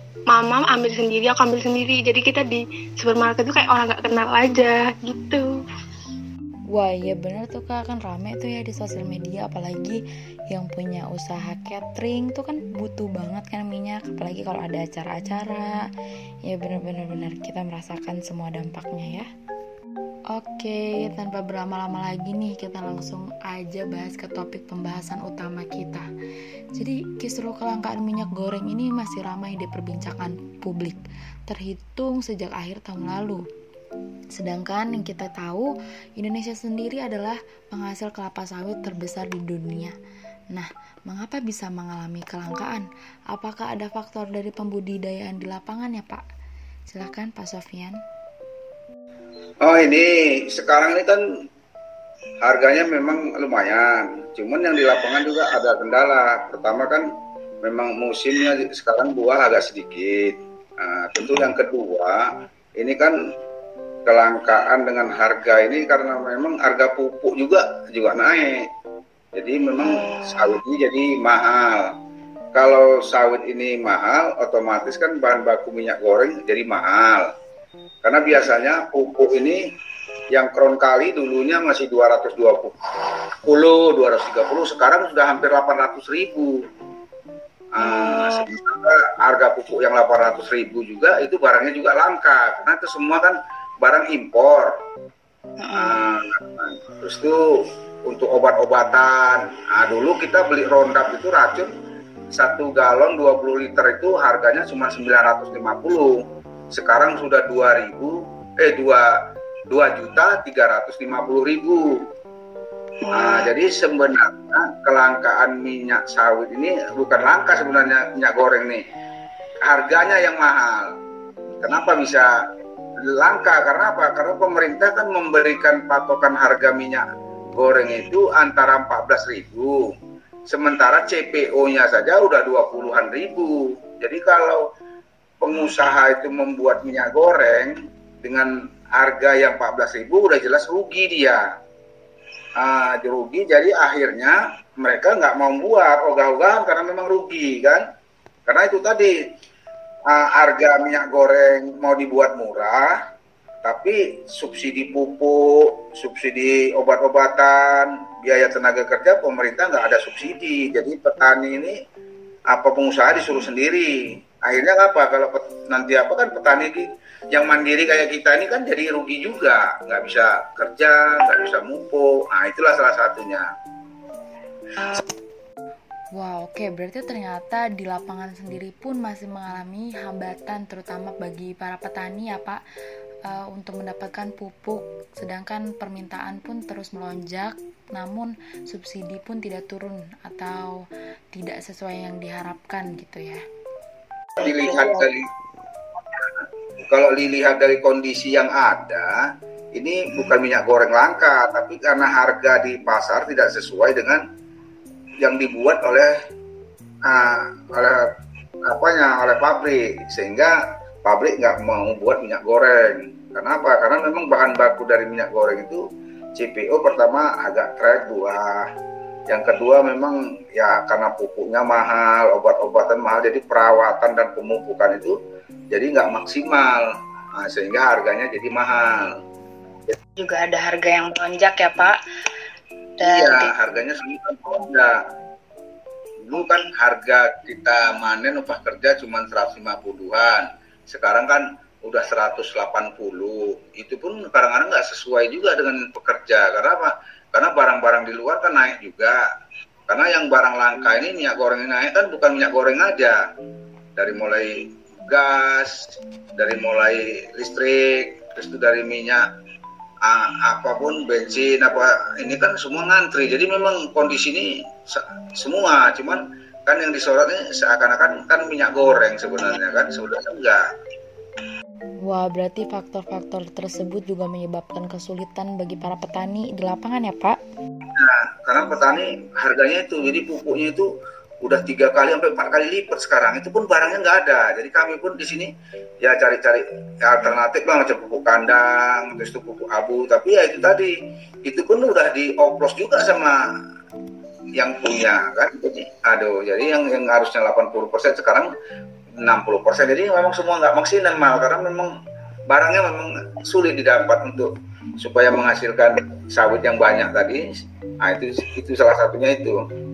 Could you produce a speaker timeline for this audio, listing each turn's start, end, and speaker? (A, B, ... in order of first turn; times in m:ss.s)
0:00.3-0:05.5 A
0:06.7-0:10.0 B
0:10.5-0:15.8 B
0:16.5-0:19.3 B
0:20.3-0:26.0 B
0:26.7-0:33.4 B
0:34.4-0:39.9 B
0:40.5-0:46.2 B
0:46.9-0:48.0 B
0:49.6-0:51.2 C
0:52.4-0:57.1 C
0:57.6-1:03.2 C
1:04.0-1:08.7 C
1:09.3-1:11.9 C
1:10.0-1:10.5 D
1:12.5-1:17.3 C
1:18.0-1:19.6 C
1:20.3-1:22.8 C
1:23.4-1:26.6 C
1:27.7-1:34.8 C
1:27.8-1:28.4 D
1:35.6-1:36.0 D
1:35.7-1:37.4 C
1:38.1-1:41.7 C
1:42.3-1:52.0 C
1:53.1-1:58.8 C
1:53.1-1:53.5 D
1:59.6-2:00.9 C
2:01.6-2:02.3 C
2:03.0-2:09.9 C
2:10.5-2:14.7 C
2:15.4-2:21.4 C
2:22.6-2:27.8 C
2:28.5-2:29.1 C
2:30.1-2:33.0 C
2:33.6-2:41.8 C
2:42.5-2:53.5 C
2:56.1-3:02.6 B
3:03.2-3:10.8 B
3:11.3-3:13.4 B
3:14.4-3:15.3 C
3:14.4-3:15.1 D
3:16.4-3:19.1 C
3:19.8-3:24.2 C
3:25.2-3:26.1 C
3:27.0-3:28.1 C
3:28.6-3:35.8 C
3:36.4-3:38.7 C
3:39.3-3:45.2 C
3:45.7-3:49.1 C
3:50.2-3:52.0 D
3:53.0-3:53.5 D
3:53.0-3:55.0 C
3:56.2-4:09.2 C
4:09.9-4:13.2 C
4:14.0-4:19.3 C
4:20.0-4:30.6 C
4:32.0-4:37.4 B
4:38.0-4:40.9 C
4:41.4-4:50.9 C
4:51.4-4:53.4 C
4:54.6-4:58.5 C
4:59.2-5:01.9 C
5:02.5-5:07.4 C
5:08.0-5:09.6 C